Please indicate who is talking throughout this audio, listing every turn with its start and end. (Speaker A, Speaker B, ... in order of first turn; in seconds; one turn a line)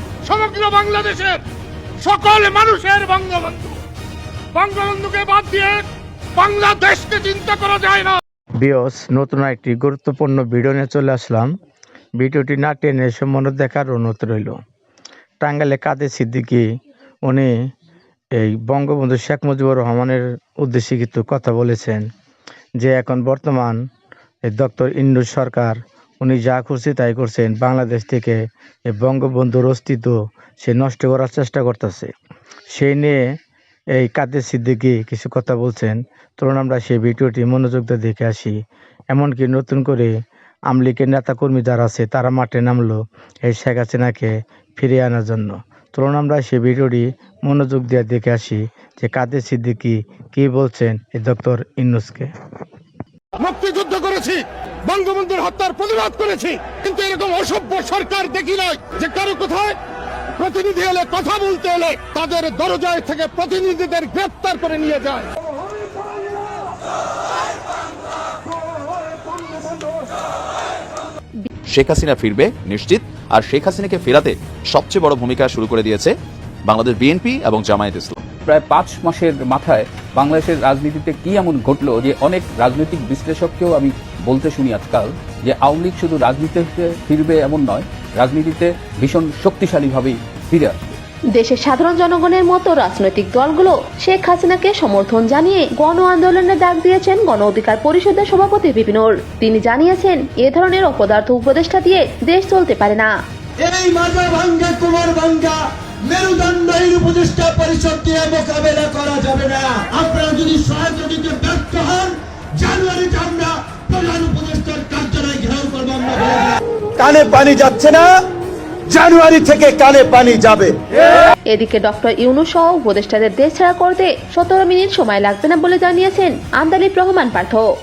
Speaker A: 0.2-1.4
Speaker A: 2.0-3.8
Speaker A: 4.5-5.8
Speaker A: 6.4-8.2
Speaker B: 8.6-11.5
Speaker B: 12.2-14.6
Speaker B: 15.4-16.7
Speaker B: 17.2-17.5
Speaker B: 18.3-22.1
Speaker B: 22.8-23.8
Speaker B: 24.4-32.1
Speaker B: 32.7-33.2
Speaker B: 33.9-38.6
Speaker B: 39.1-40.1
Speaker B: 40.7-52.3
Speaker A: 53.4-59.8
Speaker A: 60.4-65.3
Speaker C: 71.7-78.2
Speaker D: 78.5-90.8
Speaker E: 91.3-103.1
Speaker F: 103.6-118.1
Speaker F: 118.9-120.8
Speaker E: 121.5-127.7